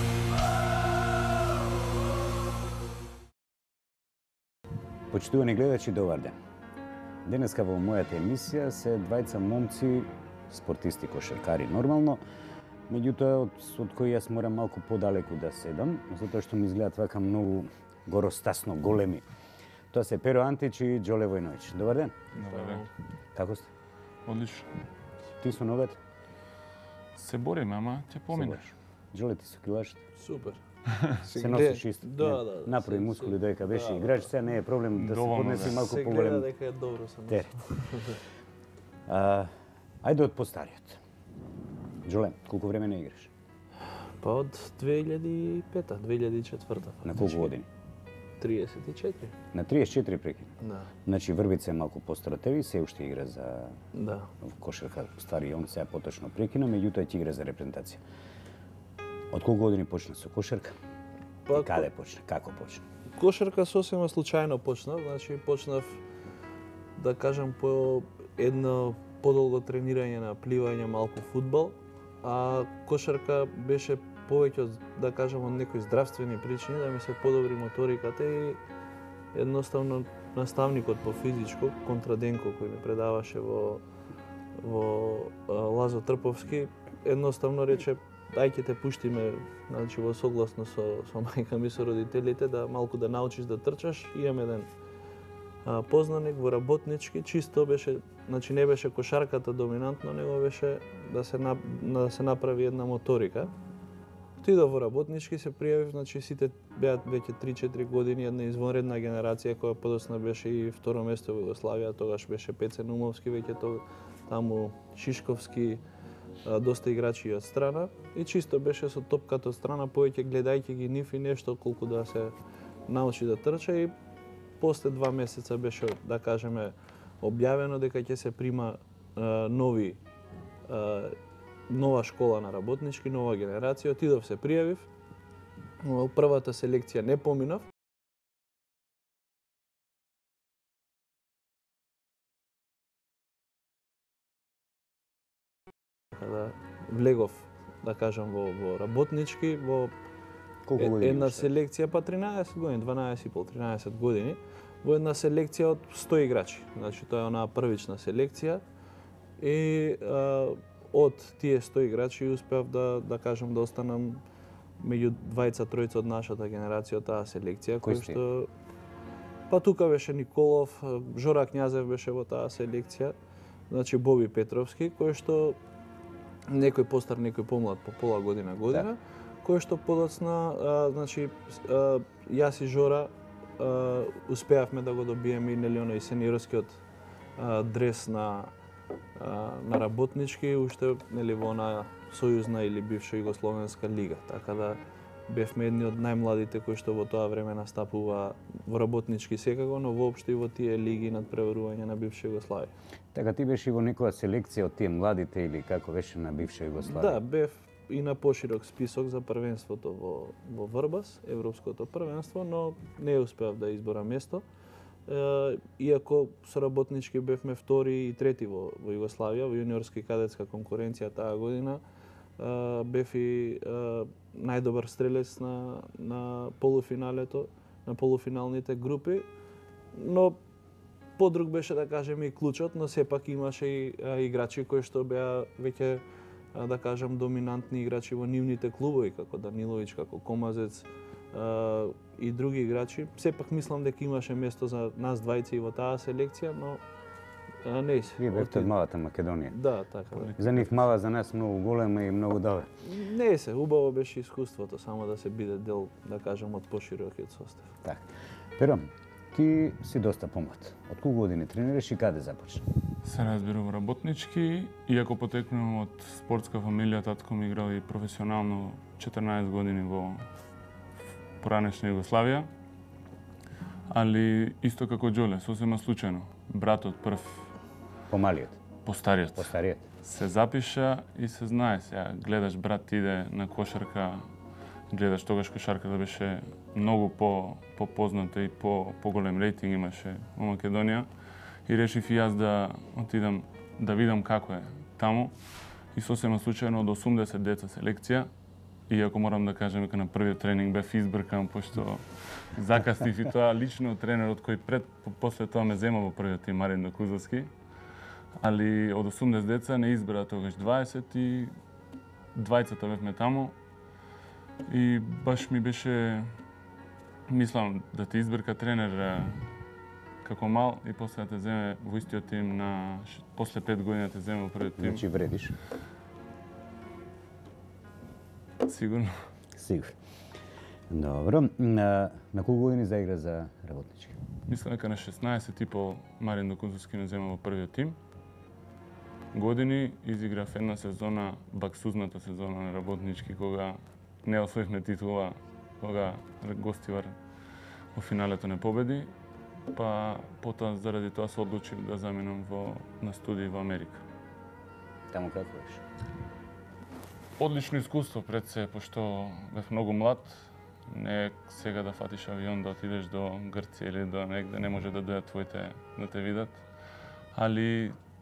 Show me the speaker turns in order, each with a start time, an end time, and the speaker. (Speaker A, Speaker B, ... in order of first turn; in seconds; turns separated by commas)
Speaker A: 5.1-6.4, Speaker A: 7.2-12.2, Speaker A: 12.9-19.2, Speaker A: 19.9-22.2, Speaker B: 22.4-22.8, Speaker C: 22.4-22.9, Speaker A: 23.4-23.7, Speaker B: 24.3-24.7, Speaker A: 25.4-26.0, Speaker B: 27.2-28.6, Speaker A: 28.3-30.0, Speaker C: 30.2-34.3, Speaker A: 31.3-36.5, Speaker B: 35.0-35.9, Speaker C: 35.7-38.2, Speaker A: 39.1-39.5, Speaker A: 40.0-41.0, Speaker A: 42.0-43.3, Speaker C: 44.2-47.5, Speaker A: 47.0-47.7, Speaker C: 48.4-49.3, Speaker A: 49.5-53.8, Speaker C: 50.6-50.9, Speaker C: 53.9-54.3, Speaker A: 54.4-58.0, Speaker A: 59.3-60.8, Speaker C: 61.5-61.9, Speaker A: 61.5-62.8, Speaker C: 63.1-66.0, Speaker C: 67.0-78.6, Speaker C: 79.3-83.8, Speaker C: 84.6-94.7, Speaker C: 95.7-103.5, Speaker C: 104.4-115.8, Speaker C: 116.4-122.3, Speaker C: 122.9-123.9, Speaker C: 124.6-130.0, Speaker C: 130.7-131.2, Speaker C: 131.7-134.9, Speaker C: 135.8-137.7, Speaker C: 146.2-149.9, Speaker A: 150.7-151.5, Speaker C: 150.8-158.6, Speaker C: 159.4-164.2, Speaker C: 164.8-168.5, Speaker A: 167.8-168.2, Speaker C: 169.5-173.2, Speaker C: 173.7-175.6, Speaker C: 176.5-186.8, Speaker C: 187.4-188.5, Speaker C: 189.2-202.7, Speaker A: 203.1-207.2, Speaker C: 206.8-214.4, Speaker C: 215.1-221.8, Speaker C: 222.4-229.3, Speaker C: 229.9-230.4, Speaker C: 231.2-236.0, Speaker C: 236.5-246.8, Speaker C: 247.6-248.7, Speaker A: 248.2-249.6, Speaker C: 249.5-250.4, Speaker B: 250.2-250.8, Speaker A: 250.4-252.7, Speaker C: 252.8-257.7, Speaker A: 257.8-262.6, Speaker B: 263.0-270.2, Speaker B: 271.4-272.5, Speaker B: 273.9-277.5, Speaker A: 278.1-278.6, Speaker B: 278.9-279.5, Speaker A: 279.4-279.8, Speaker B: 280.0-284.3, Speaker B: 284.9-291.1, Speaker B: 291.7-295.4, Speaker B: 295.9-298.3, Speaker B: 298.9-307.5, Speaker B: 308.4-311.5, Speaker B: 312.4-313.5, Speaker B: 314.7-316.3, Speaker B: 317.3-319.5, Speaker B: 320.2-325.0, Speaker A: 324.8-325.6, Speaker B: 328.6-329.3, Speaker A: 329.6-330.0, Speaker A: 330.9-334.2, Speaker B: 334.5-338.0, Speaker B: 339.3-347.1, Speaker B: 347.9-349.1, Speaker B: 349.7-354.0, Speaker A: 355.1-355.8, Speaker B: 357.4-366.6, Speaker B: 367.3-368.0